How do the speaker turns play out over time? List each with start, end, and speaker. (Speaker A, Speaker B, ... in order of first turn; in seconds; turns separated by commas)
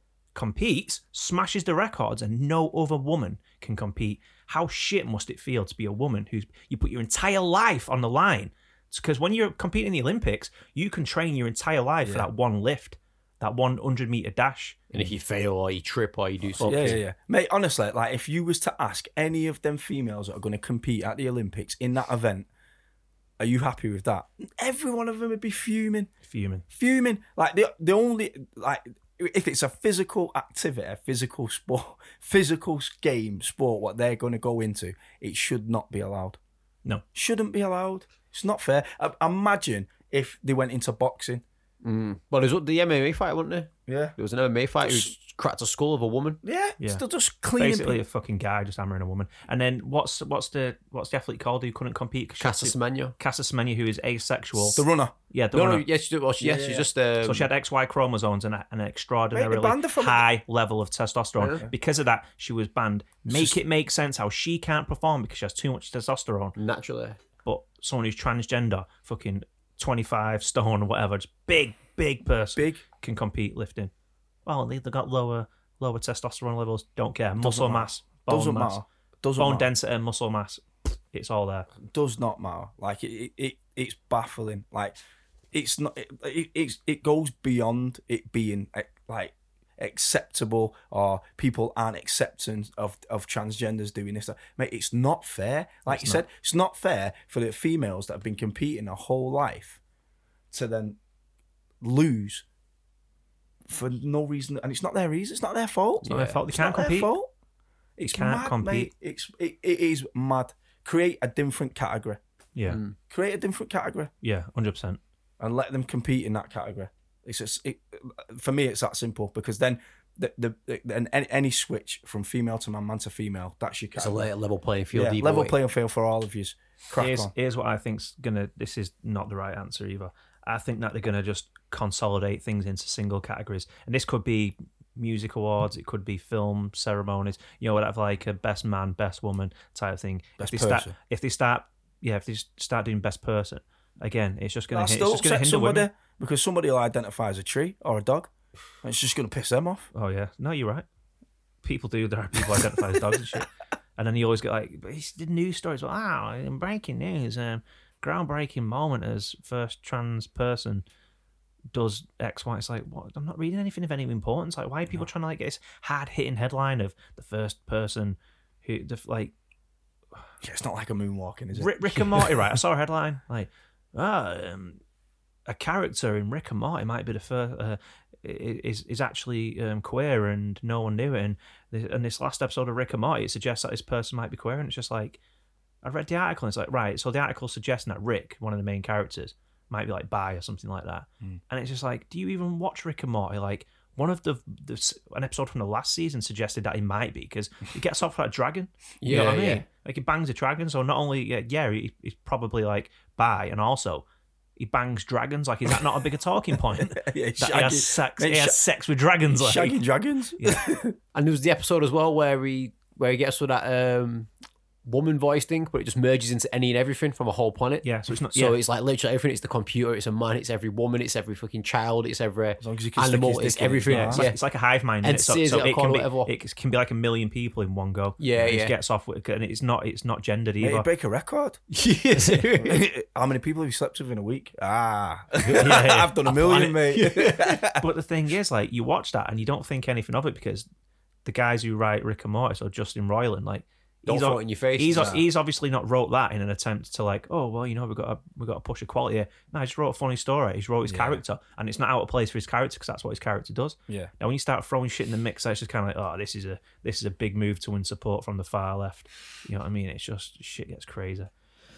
Speaker A: 0.3-14.8, Speaker B: 14.9-17.0, Speaker A: 16.6-17.0, Speaker C: 16.6-22.5, Speaker C: 23.4-26.1, Speaker A: 26.2-26.6, Speaker C: 26.7-36.4, Speaker C: 37.1-41.4, Speaker B: 41.8-46.4, Speaker C: 43.9-44.1, Speaker C: 44.8-45.1, Speaker C: 46.4-48.0, Speaker A: 47.5-55.8, Speaker B: 52.4-53.1, Speaker C: 54.6-55.1, Speaker B: 55.5-57.5, Speaker C: 56.4-56.9, Speaker A: 57.2-66.5, Speaker C: 59.3-60.3, Speaker C: 63.3-63.6, Speaker B: 66.5-67.2, Speaker A: 67.4-73.9, Speaker C: 72.5-72.8, Speaker A: 74.5-78.8, Speaker C: 77.4-79.7, Speaker A: 79.4-81.7, Speaker C: 81.8-85.0, Speaker C: 85.5-99.8, Speaker A: 95.9-96.2, Speaker C: 100.5-101.0, Speaker C: 101.8-102.4, Speaker C: 103.7-107.3, Speaker B: 106.0-106.4, Speaker A: 106.0-107.1, Speaker C: 108.0-112.2, Speaker A: 108.0-108.9, Speaker A: 112.5-112.8, Speaker B: 112.7-112.9, Speaker C: 113.0-114.1, Speaker A: 114.2-115.0, Speaker C: 115.4-124.3, Speaker B: 124.0-125.5, Speaker C: 124.9-127.3, Speaker A: 127.0-145.9, Speaker C: 140.4-140.9, Speaker C: 144.7-149.9, Speaker A: 149.9-150.8, Speaker A: 151.6-160.8, Speaker A: 161.7-169.3, Speaker C: 170.4-172.5, Speaker A: 171.5-174.8, Speaker A: 175.5-185.2, Speaker A: 185.8-204.0, Speaker B: 199.0-199.6, Speaker A: 204.6-209.8, Speaker C: 206.7-208.6, Speaker C: 209.3-210.9, Speaker A: 210.4-210.6, Speaker B: 211.1-214.3, Speaker B: 214.8-224.4, Speaker A: 217.8-218.6, Speaker C: 222.6-224.3, Speaker A: 223.9-230.8, Speaker B: 225.0-226.3, Speaker B: 228.2-228.7, Speaker C: 230.6-231.6, Speaker B: 231.7-232.8, Speaker A: 232.2-232.4, Speaker C: 232.6-237.8, Speaker B: 235.5-237.6, Speaker A: 235.5-236.1, Speaker A: 237.7-240.7, Speaker A: 241.2-261.3, Speaker B: 244.1-245.2, Speaker C: 244.9-245.2, Speaker C: 250.9-251.2